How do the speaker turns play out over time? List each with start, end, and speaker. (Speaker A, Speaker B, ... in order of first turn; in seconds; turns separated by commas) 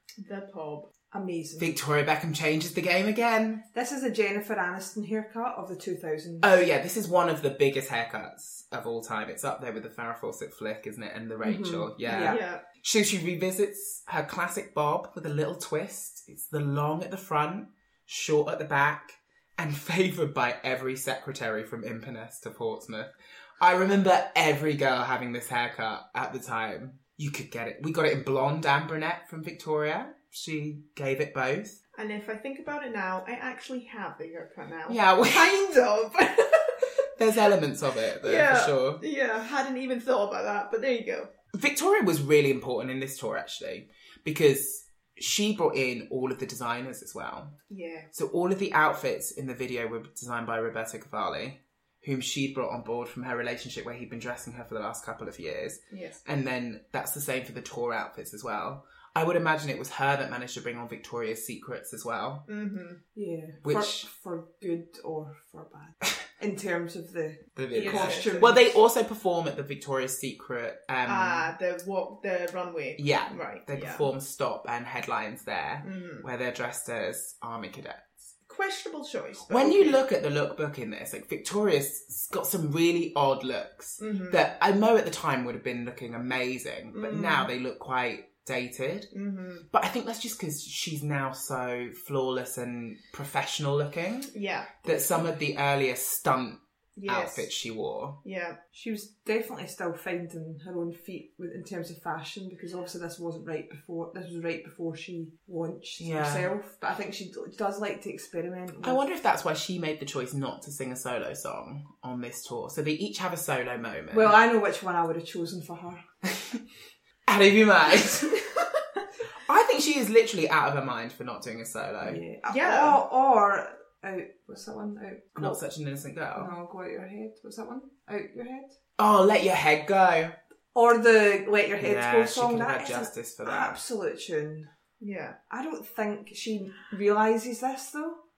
Speaker A: 0.2-0.9, Speaker B: 1.1-1.7, Speaker C: 1.6-3.6, Speaker B: 3.7-6.6, Speaker C: 6.4-31.8, Speaker B: 11.4-12.4, Speaker A: 12.1-12.6, Speaker A: 31.9-36.9, Speaker C: 34.9-35.5, Speaker C: 37.1-39.0, Speaker A: 38.2-41.3, Speaker C: 41.5-47.5, Speaker A: 47.7-48.1, Speaker C: 48.1-62.5, Speaker A: 55.9-56.2, Speaker A: 62.5-63.0, Speaker B: 63.1-68.6, Speaker C: 63.6-64.1, Speaker C: 67.5-71.5, Speaker A: 67.7-68.6, Speaker A: 71.0-74.1, Speaker C: 73.0-78.3, Speaker A: 75.8-76.2, Speaker A: 78.5-80.0, Speaker C: 79.5-89.1, Speaker A: 84.0-84.5, Speaker A: 86.9-87.5, Speaker A: 89.1-89.7, Speaker C: 89.7-94.3, Speaker A: 94.3-95.3, Speaker C: 94.8-98.2, Speaker A: 97.0-97.5, Speaker A: 98.2-98.6, Speaker B: 98.7-109.0, Speaker C: 106.0-106.5, Speaker C: 108.8-114.4, Speaker B: 114.1-116.0, Speaker C: 117.3-118.4, Speaker C: 119.5-122.2, Speaker B: 122.0-125.6, Speaker A: 122.5-123.0, Speaker C: 125.3-126.5, Speaker B: 126.3-128.8, Speaker C: 129.0-130.4, Speaker B: 130.7-134.7, Speaker C: 131.8-133.8, Speaker A: 135.0-135.4, Speaker B: 135.5-138.2